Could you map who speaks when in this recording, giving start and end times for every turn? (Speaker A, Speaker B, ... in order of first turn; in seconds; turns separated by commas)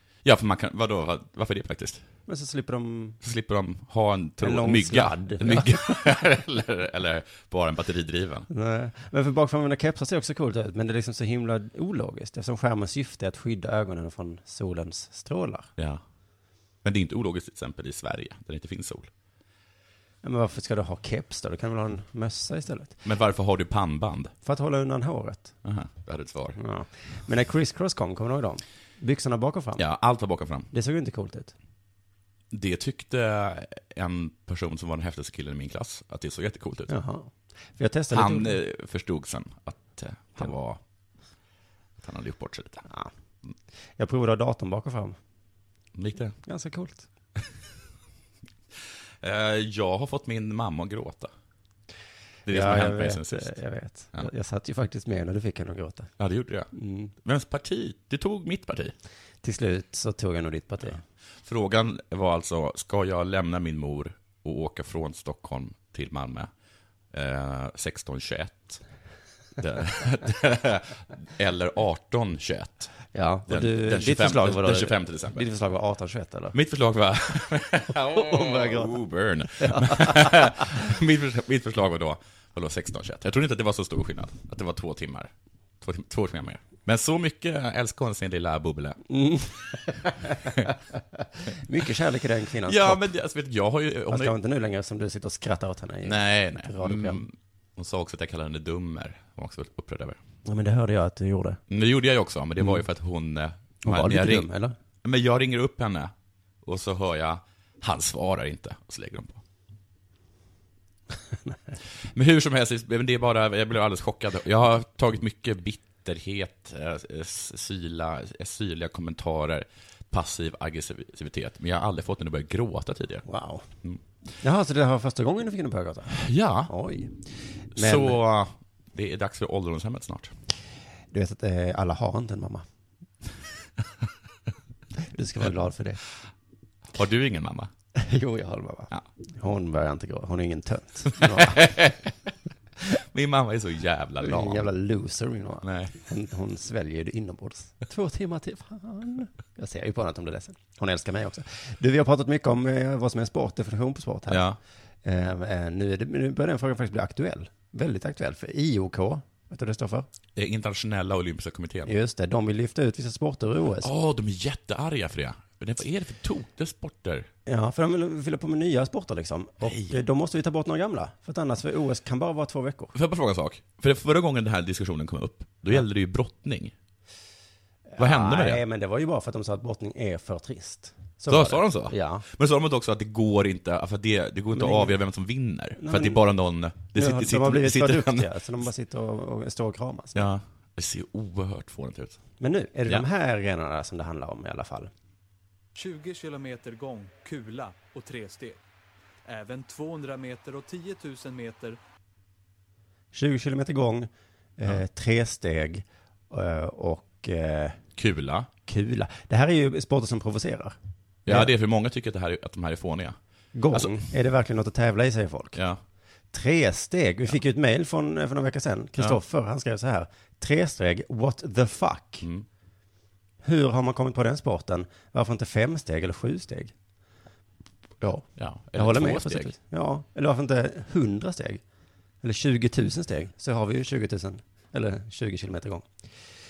Speaker A: 0.2-2.0, Speaker B: 2.3-3.2, Speaker A: 3.2-8.5, Speaker B: 4.4-5.9, Speaker B: 8.5-15.7, Speaker A: 15.8-16.0, Speaker A: 16.8-19.1, Speaker B: 20.2-22.9, Speaker A: 23.0-24.3, Speaker B: 24.4-25.5, Speaker A: 25.6-26.6, Speaker B: 26.5-29.8, Speaker A: 29.8-30.7, Speaker B: 30.7-31.5, Speaker A: 32.5-36.9, Speaker B: 36.9-38.6, Speaker A: 38.1-40.8, Speaker A: 42.0-42.8, Speaker B: 44.0-45.2, Speaker A: 45.9-46.4, Speaker B: 46.4-47.1, Speaker A: 49.2-51.3, Speaker A: 52.5-53.6, Speaker B: 52.5-56.1, Speaker A: 56.2-56.7, Speaker B: 56.7-57.1, Speaker A: 57.2-58.9, Speaker B: 59.4-61.0, Speaker A: 61.4-66.5, Speaker A: 67.1-68.8, Speaker A: 69.6-72.9, Speaker B: 73.1-76.5, Speaker A: 73.5-75.5, Speaker A: 76.5-89.0, Speaker B: 77.9-79.0, Speaker B: 79.5-80.5, Speaker B: 89.1-90.7, Speaker B: 91.5-93.0, Speaker A: 92.7-94.3, Speaker B: 94.1-97.2, Speaker A: 96.0-100.2, Speaker B: 100.5-101.6, Speaker A: 101.7-104.5, Speaker B: 103.8-104.7, Speaker A: 105.0-106.1, Speaker A: 106.6-109.4, Speaker A: 112.1-123.2, Speaker B: 123.2-123.6, Speaker B: 124.4-127.1, Speaker A: 126.1-126.7, Speaker B: 127.7-128.2, Speaker A: 127.7-130.3, Speaker B: 131.1-132.7, Speaker B: 135.1-136.0, Speaker A: 136.9-137.7, Speaker B: 137.9-141.8, Speaker A: 141.2-142.1, Speaker A: 142.9-144.7, Speaker B: 144.2-154.4, Speaker A: 145.6-145.9, Speaker A: 154.3-154.6, Speaker B: 155.0-160.1, Speaker A: 160.3-161.9, Speaker B: 161.8-163.9, Speaker A: 163.8-167.3, Speaker B: 167.4-172.9, Speaker A: 169.6-169.9, Speaker A: 172.9-176.7, Speaker B: 177.9-182.2, Speaker A: 178.0-178.6, Speaker A: 181.3-188.3, Speaker B: 184.5-184.9, Speaker B: 185.8-186.2, Speaker B: 186.9-190.3, Speaker A: 190.1-192.2, Speaker B: 192.4-194.9, Speaker C: 195.7-198.6, Speaker C: 199.2-201.8, Speaker B: 203.1-207.8, Speaker A: 208.0-208.5, Speaker B: 208.7-210.7, Speaker A: 211.2-213.2, Speaker B: 213.5-215.6, Speaker B: 216.3-222.3, Speaker B: 223.4-226.7, Speaker B: 228.0-231.6, Speaker A: 228.4-229.5, Speaker B: 232.2-235.9